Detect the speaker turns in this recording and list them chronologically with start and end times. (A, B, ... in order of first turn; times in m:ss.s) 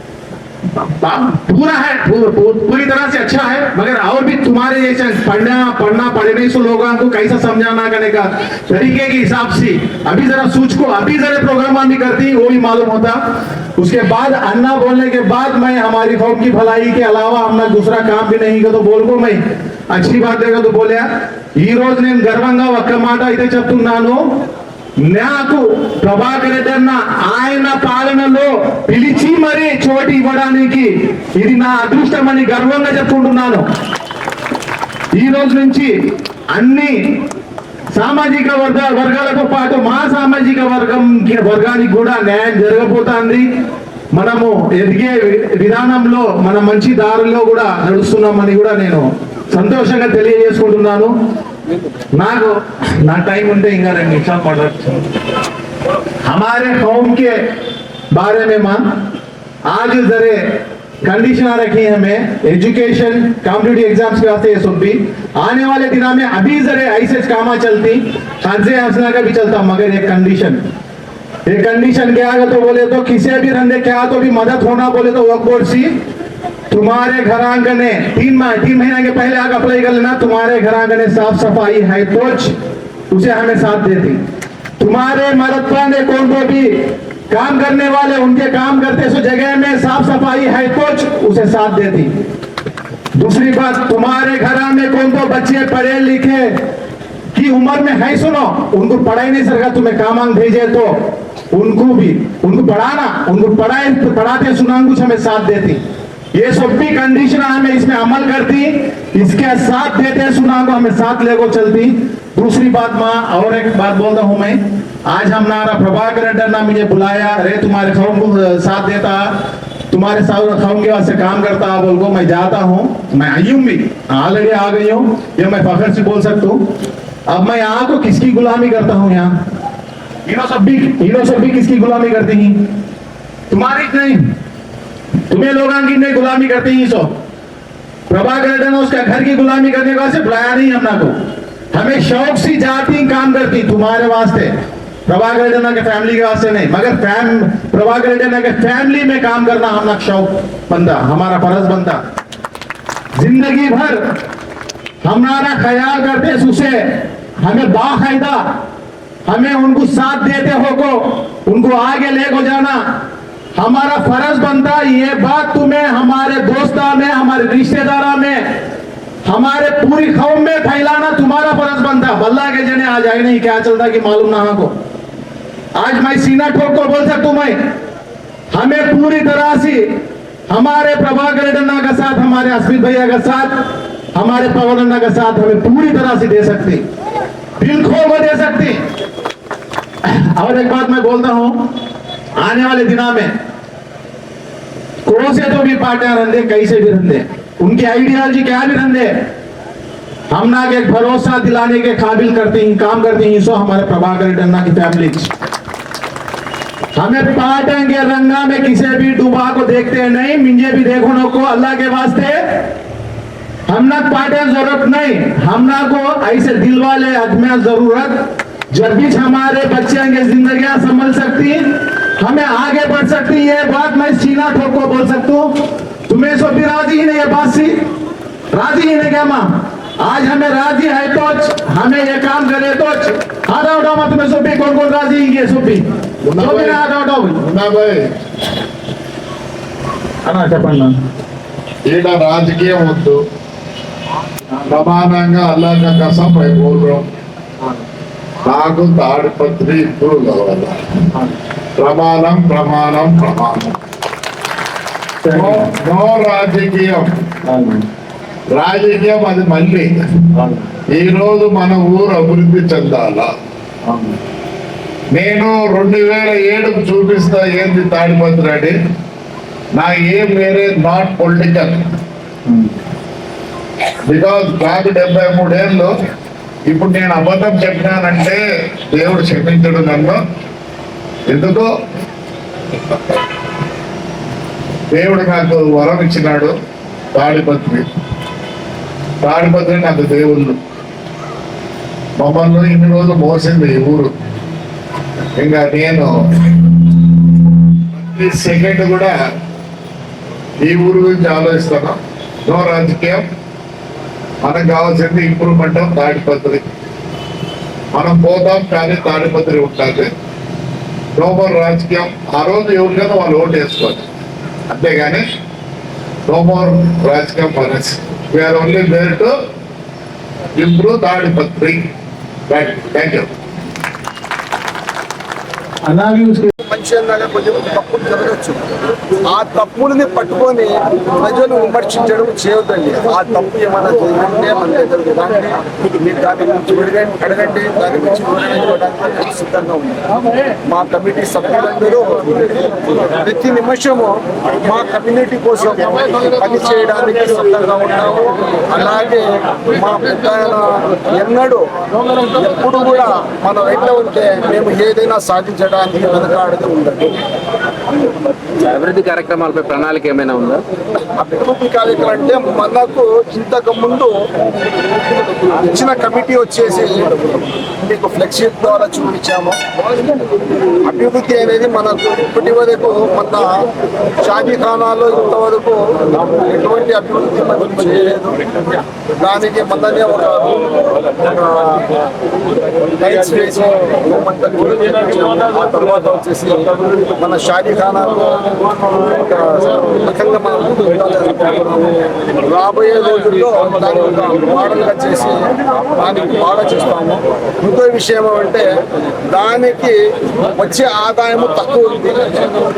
0:00.8-0:13.2 A
0:13.8-0:24.2 A
0:25.0-0:33.6 A
0:35.2-0:35.9 A
0:36.5-0:37.1 A
0:37.9-0:43.5 A
0:44.1-0:51.1 A
0:52.2-0:55.0 A
0:56.2-0:57.4 A
0:58.1-0:58.8 A
0:59.7-1:10.6 A
1:11.5-1:16.0 A
1:16.7-1:22.6 A
1:23.1-1:24.2 A
1:24.8-1:32.1 A
1:33.2-1:36.6 A
1:37.3-1:41.0 A
1:41.5-1:45.8 A
1:46.4-1:59.4 A
1:59.9-2:06.6 A
2:07.3-2:09.4 A
2:10.3-2:12.7 A
2:13.5-2:14.3 A
2:15.3-2:17.1 A
2:18.1-2:21.2 A
2:21.7-2:24.5 A
2:25.1-2:32.0 A
2:33.2-2:34.0 A
2:35.0-2:38.4 A
2:39.3-2:42.8 A
2:43.6-2:48.5 A
2:49.3-2:54.7 A
2:55.8-2:57.6 A
2:58.5-3:06.8 A
3:07.6-3:08.8 A
3:10.0-3:11.7 A
3:12.4-3:13.3 A
3:15.1-3:19.2 A
3:20.3-3:25.3 A
3:27.0-3:32.7 A
3:33.7-3:45.6 A
3:46.1-3:47.8 A
3:48.5-3:55.8 A
3:56.2-3:56.8 B
3:56.4-3:57.4 A
3:57.4-3:58.1 B
4:00.2-4:01.0 A
4:01.9-4:03.2 B
4:04.7-4:07.1 B
4:08.4-4:10.8 B
4:11.8-4:13.8 B
4:15.3-4:15.7 C
4:15.3-4:17.2 B
4:17.5-4:17.8 C
4:18.5-4:19.9 B
4:20.4-4:20.7 C
4:20.9-4:23.3 B
4:23.9-4:24.2 C
4:25.1-4:28.8 B
4:29.8-4:31.9 B
4:34.0-4:35.9 B
4:36.7-4:40.2 B
4:41.3-4:41.7 B
4:44.9-4:46.6 B
4:47.1-4:47.9 B
4:49.2-4:50.6 B
4:52.2-4:54.1 B
4:55.4-4:59.2 B
5:00.6-5:03.3 B
5:04.4-5:06.7 B
5:07.9-5:10.1 B
5:11.2-5:14.1 B
5:14.7-5:15.2 B
5:16.3-5:19.4 B
5:20.6-5:21.9 B
5:22.5-5:23.3 B
5:25.9-5:26.5 A
5:26.6-5:28.6 D
5:29.3-5:40.0 D
5:40.7-5:51.7 D
5:52.3-5:57.2 D
5:58.6-6:00.6 C
6:01.2-6:04.1 D
6:05.6-6:09.6 D
6:10.8-6:13.7 D
6:14.2-6:18.4 D
6:19.2-6:21.9 D
6:23.0-6:38.7 D
6:39.3-6:40.0 D
6:40.6-6:42.6 D